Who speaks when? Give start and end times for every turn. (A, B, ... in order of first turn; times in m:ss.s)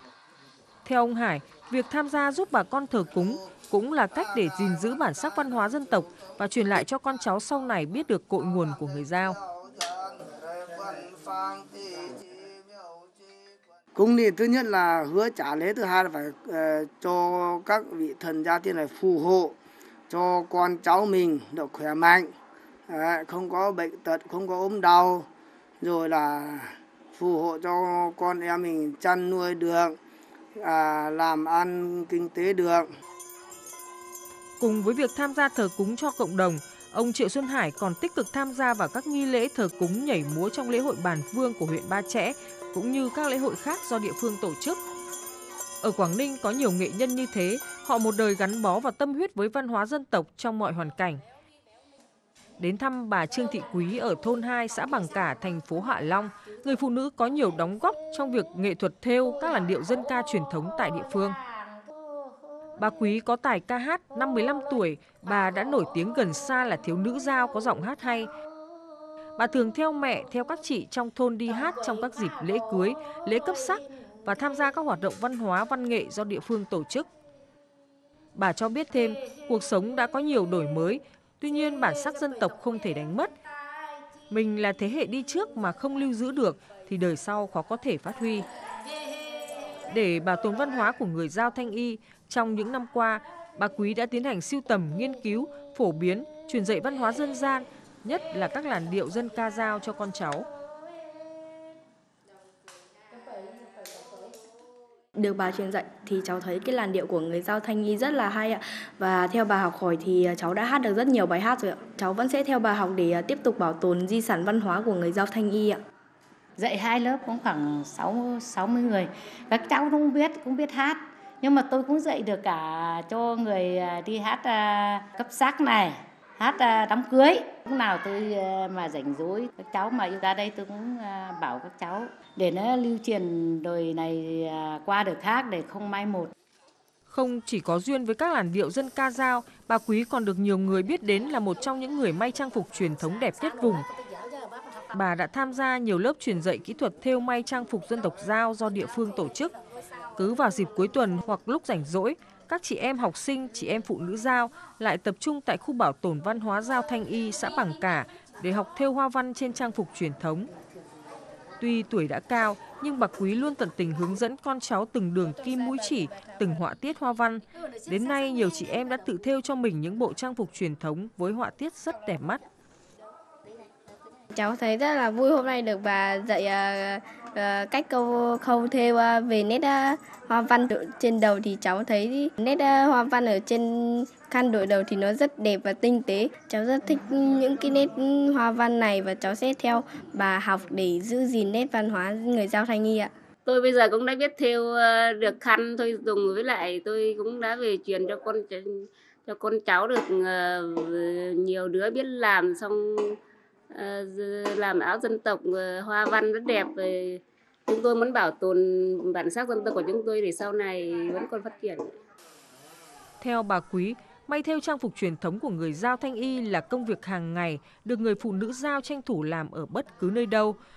0:00.8-0:09.4 A
0:10.7-0:11.6 B
0:13.9-0:19.5 B
0:20.1-0:22.3 B
0:22.9-0:25.2 B
0:25.8-0:30.0 B
0:30.6-0:32.8 B
0:34.6-0:44.8 A
0:45.8-0:51.2 A
0:52.6-1:01.4 A
1:02.8-1:08.3 A
1:09.4-1:17.1 A
1:18.3-1:23.3 A
1:24.3-1:28.5 A
1:29.9-1:40.5 A
1:45.2-1:55.7 C
1:56.6-2:16.3 D
2:17.1-2:23.8 A
2:24.9-2:29.5 A
2:30.2-2:40.5 A
2:41.6-2:52.4 A
2:54.3-3:13.1 E
3:13.4-3:23.2 F
3:23.7-3:31.8 F
3:33.2-3:40.6 A